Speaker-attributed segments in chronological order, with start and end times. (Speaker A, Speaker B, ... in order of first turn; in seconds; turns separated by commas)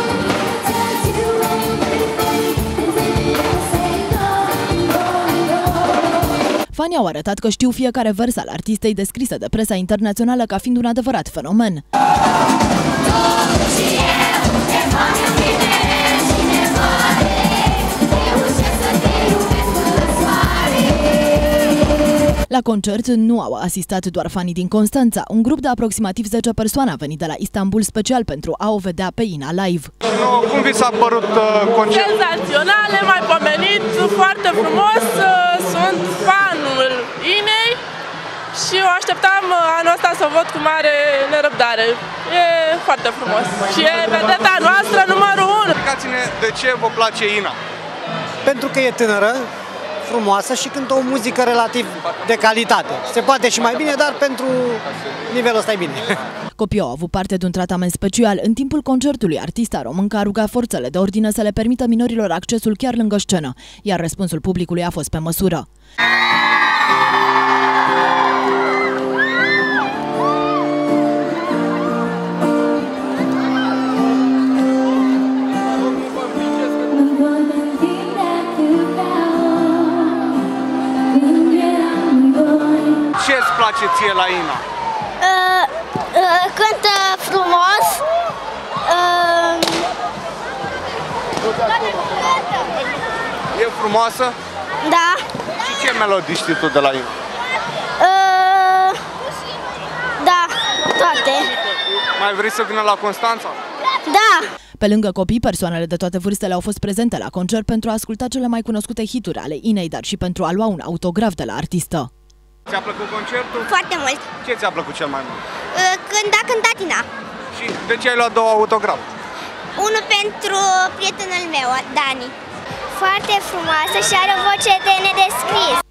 Speaker A: 6.7-11.8, Speaker A: 22.5-29.9, Speaker B: 30.1-32.1, Speaker C: 31.9-37.8, Speaker C: 38.5-45.7, Speaker B: 45.7-47.6, Speaker D: 48.4-49.5, Speaker D: 50.0-56.1, Speaker A: 56.6-65.7, Speaker E: 77.0-80.3, Speaker E: 81.4-83.1, Speaker B: 83.1-84.6, Speaker E: 85.2-88.0, Speaker E: 88.8-89.9, Speaker B: 93.5-94.3, Speaker E: 94.8-95.3, Speaker B: 95.6-97.1, Speaker E: 98.0-99.0, Speaker E: 100.2-101.5, Speaker B: 102.2-103.6, Speaker E: 104.1-104.5, Speaker A: 104.8-112.1, Speaker B: 112.7-113.7, Speaker E: 113.5-114.3, Speaker B: 114.4-115.4, Speaker E: 115.7-117.1, Speaker B: 117.5-119.1, Speaker E: 119.8-122.3, Speaker E: 122.9-125.8